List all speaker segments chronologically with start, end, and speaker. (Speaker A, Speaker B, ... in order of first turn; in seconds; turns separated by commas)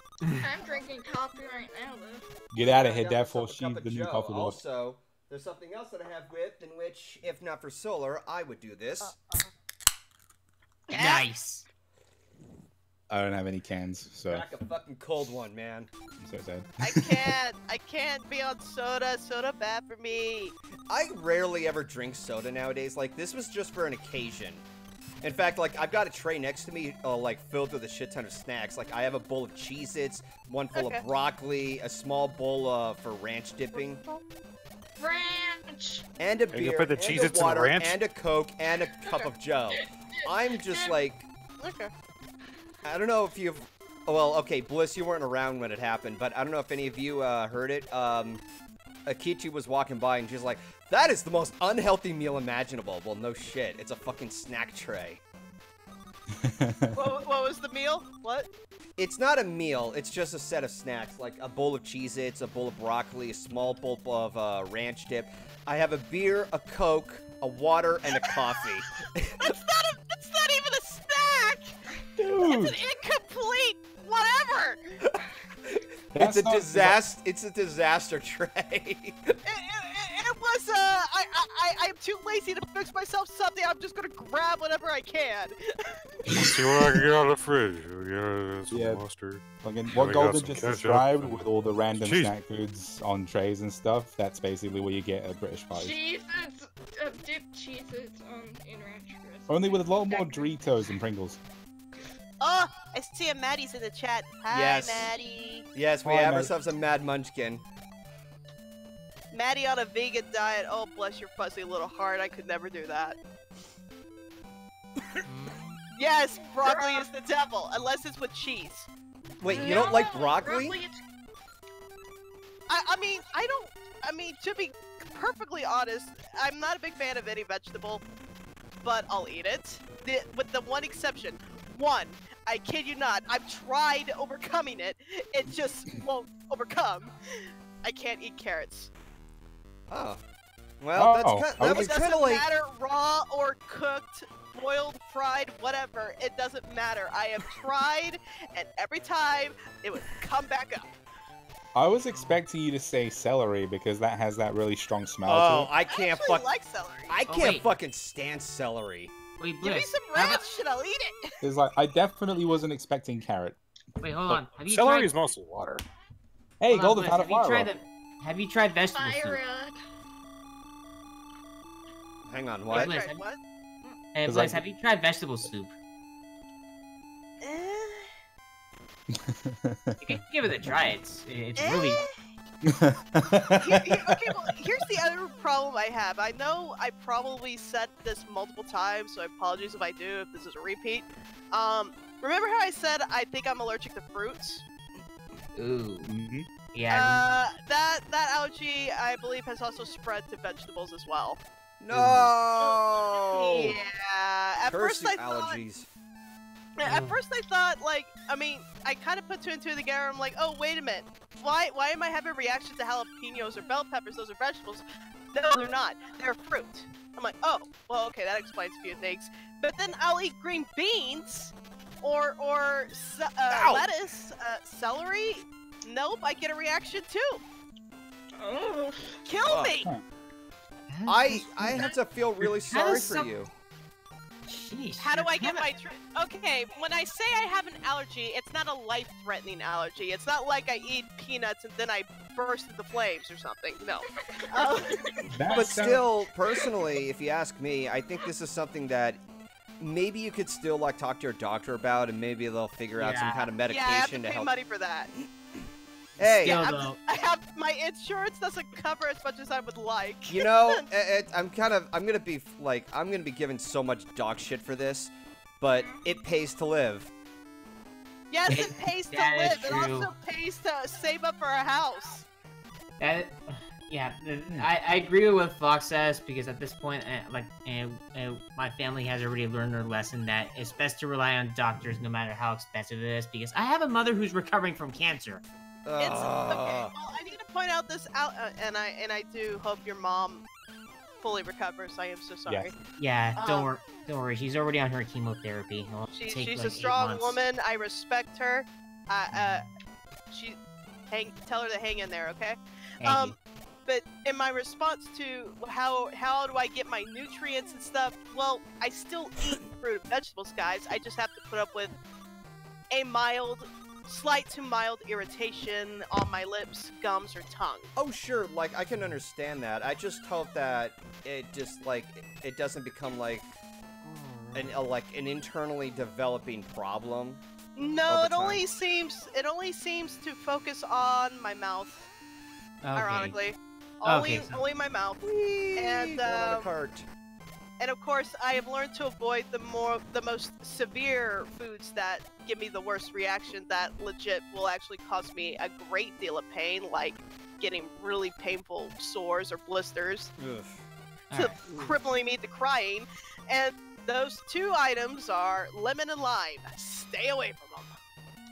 Speaker A: 0.4-2.3, Speaker B: 2.5-4.6, Speaker C: 2.6-9.1, Speaker A: 10.9-11.3, Speaker D: 10.9-11.6, Speaker B: 13.1-14.5, Speaker C: 14.3-15.9, Speaker B: 16.2-17.3, Speaker E: 16.8-20.5, Speaker C: 20.9-24.6, Speaker C: 25.2-34.0, Speaker E: 30.7-31.1, Speaker E: 33.7-34.2, Speaker A: 35.0-36.0, Speaker C: 36.2-41.3, Speaker F: 36.5-38.0, Speaker A: 39.0-40.9, Speaker E: 41.6-41.9, Speaker C: 42.8-48.4, Speaker C: 49.0-55.2, Speaker B: 56.4-57.0, Speaker E: 56.9-58.5, Speaker C: 59.0-69.3, Speaker E: 68.2-68.6, Speaker E: 69.4-74.8, Speaker B: 72.2-72.8, Speaker C: 75.7-79.3, Speaker B: 76.1-77.0, Speaker E: 79.4-85.5, Speaker F: 86.3-92.3, Speaker B: 88.7-89.0, Speaker B: 89.6-96.0, Speaker A: 95.7-100.5, Speaker B: 99.5-101.4, Speaker E: 102.4-105.7, Speaker C: 104.5-105.1, Speaker C: 105.7-107.6, Speaker B: 106.0-106.5, Speaker E: 109.3-113.2, Speaker D: 115.2-115.8, Speaker E: 116.0-118.9, Speaker A: 116.6-117.0, Speaker C: 119.4-120.8, Speaker A: 119.5-121.0, Speaker E: 122.7-128.0, Speaker E: 128.8-137.1, Speaker E: 137.8-138.9, Speaker C: 139.9-140.2, Speaker C: 140.8-142.4, Speaker B: 140.9-142.0, Speaker E: 141.7-150.9, Speaker B: 151.7-155.7, Speaker C: 155.2-156.5, Speaker E: 155.9-157.2, Speaker C: 157.1-159.1, Speaker D: 157.3-157.7, Speaker D: 159.4-160.4, Speaker E: 159.6-161.3, Speaker B: 161.4-163.6, Speaker D: 164.0-165.1, Speaker F: 164.3-165.8, Speaker B: 166.6-167.7, Speaker D: 166.7-169.4, Speaker A: 168.9-169.8, Speaker C: 172.3-172.9, Speaker E: 172.7-173.4, Speaker D: 172.7-173.2, Speaker D: 174.1-175.7, Speaker B: 174.2-174.6, Speaker E: 177.4-178.1, Speaker B: 179.1-180.2, Speaker D: 180.0-182.0, Speaker E: 181.6-182.1, Speaker B: 182.7-184.3, Speaker E: 183.6-194.6, Speaker D: 195.6-196.1, Speaker B: 196.0-196.5, Speaker D: 196.7-197.3, Speaker E: 196.9-201.4, Speaker C: 201.8-203.8, Speaker E: 202.6-205.6, Speaker C: 204.7-205.9, Speaker E: 206.8-227.4, Speaker D: 206.8-207.2, Speaker C: 223.5-223.8, Speaker A: 228.4-229.2, Speaker E: 229.2-229.9, Speaker C: 229.4-229.8, Speaker D: 230.9-231.9, Speaker C: 231.1-233.5, Speaker D: 232.4-233.3, Speaker D: 234.4-235.7, Speaker E: 235.0-245.1, Speaker A: 244.2-244.5, Speaker B: 245.3-246.1, Speaker C: 245.5-249.2, Speaker C: 249.8-254.5, Speaker D: 253.0-253.5, Speaker E: 253.6-255.1, Speaker C: 256.2-256.6, Speaker E: 256.2-260.9, Speaker D: 256.2-257.0, Speaker C: 260.3-267.1, Speaker E: 268.3-272.2, Speaker D: 268.5-270.1, Speaker D: 273.0-285.4, Speaker C: 285.9-286.9, Speaker E: 286.0-290.4, Speaker E: 291.2-292.7, Speaker D: 293.0-297.4, Speaker E: 293.4-293.7, Speaker E: 296.1-299.6, Speaker E: 300.3-300.6, Speaker E: 301.1-311.9, Speaker D: 303.0-303.3, Speaker E: 312.9-317.9, Speaker C: 317.9-323.5, Speaker D: 324.0-324.8, Speaker C: 324.5-327.4, Speaker E: 327.8-332.0, Speaker C: 328.1-328.6, Speaker D: 332.8-333.4, Speaker E: 332.9-335.2, Speaker D: 334.0-334.6, Speaker C: 335.2-337.1, Speaker E: 335.8-336.7, Speaker E: 337.8-350.3, Speaker C: 350.4-350.8, Speaker D: 351.3-351.6, Speaker E: 351.3-357.9